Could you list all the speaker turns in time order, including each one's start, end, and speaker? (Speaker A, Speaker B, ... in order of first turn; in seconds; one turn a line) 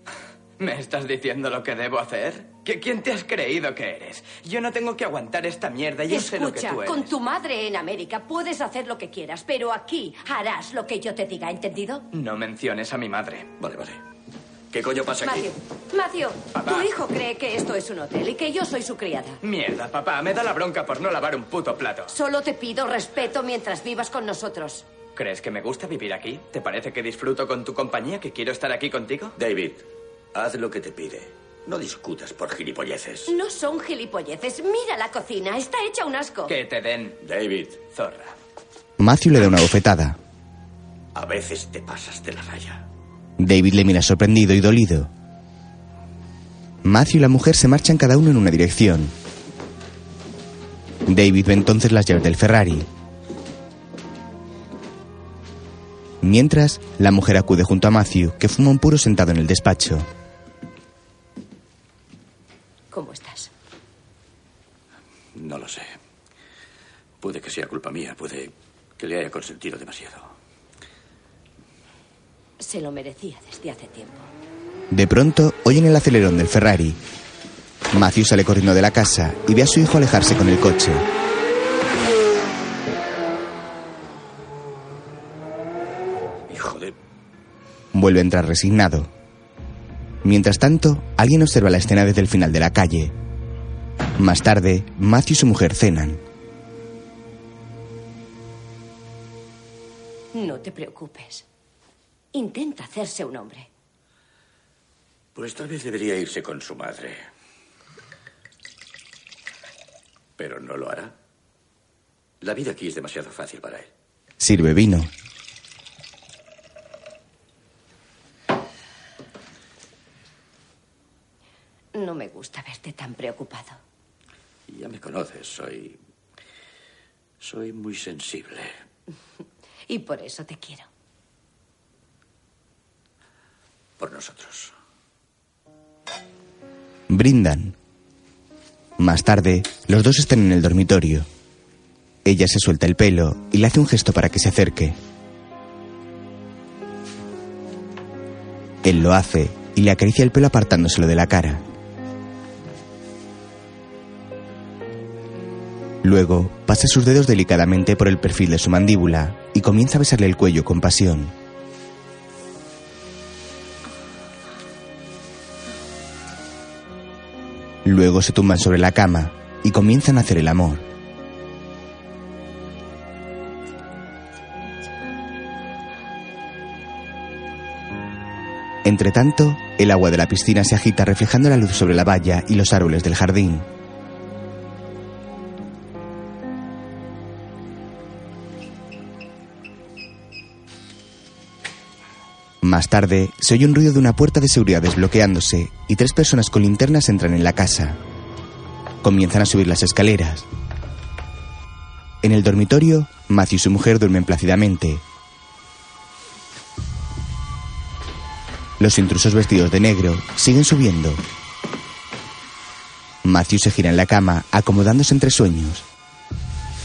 Speaker A: 0.6-7.1
Speaker B: 6.1-12.1
Speaker A: 12.1-13.5
Speaker C: 13.6-14.0
Speaker C: 14.7-15.4
Speaker B: 15.2-19.4
Speaker A: 16.5-16.9
Speaker A: 19.4-22.1
Speaker B: 22.1-24.9
Speaker A: 25.1-29.4
Speaker C: 29.4-33.3
Speaker B: 33.3-36.5
Speaker A: 36.5-37.2
Speaker C: 37.2-37.9
Speaker A: 37.9-38.3
Speaker D: 39.0-40.2
Speaker C: 41.1-42.8
Speaker D: 43.4-45.1
Speaker D: 46.8-49.1
Speaker D: 51.0-52.9
Speaker D: 56.2-60.1
Speaker B: 62.9-63.5
Speaker C: 65.3-66.0
Speaker C: 67.2-70.3
Speaker B: 72.6-74.3
Speaker D: 74.9-77.0
Speaker D: 77.9-81.1
Speaker C: 86.5-86.9
Speaker D: 87.9-89.1
Speaker D: 90.2-93.1
Speaker D: 94.2-96.2
Speaker B: 100.3-101.5
Speaker B: 102.3-103.7
Speaker C: 105.3-107.3
Speaker C: 110.4-111.1
Speaker C: 112.4-113.9
Speaker D: 114.4-115.1
Speaker B: 121.9-123.8
Speaker C: 124.7-126.0
Speaker C: 127.4-128.7
Speaker B: 129.9-130.9
Speaker C: 134.0-134.7
Speaker D: 137.1-137.8
Speaker D: 139.0-141.3
Speaker D: 142.2-145.0
Speaker D: 148.8-151.6
Speaker D: 156.0-161.3
Speaker D: 167.8-170.8
Speaker D: 178.8-183.7
Speaker D: 192.6-198.0
Speaker D: 199.0-200.4
Speaker D: 202.2-205.0
Speaker D: 208.8-211.2
Speaker D: 213.2-215.8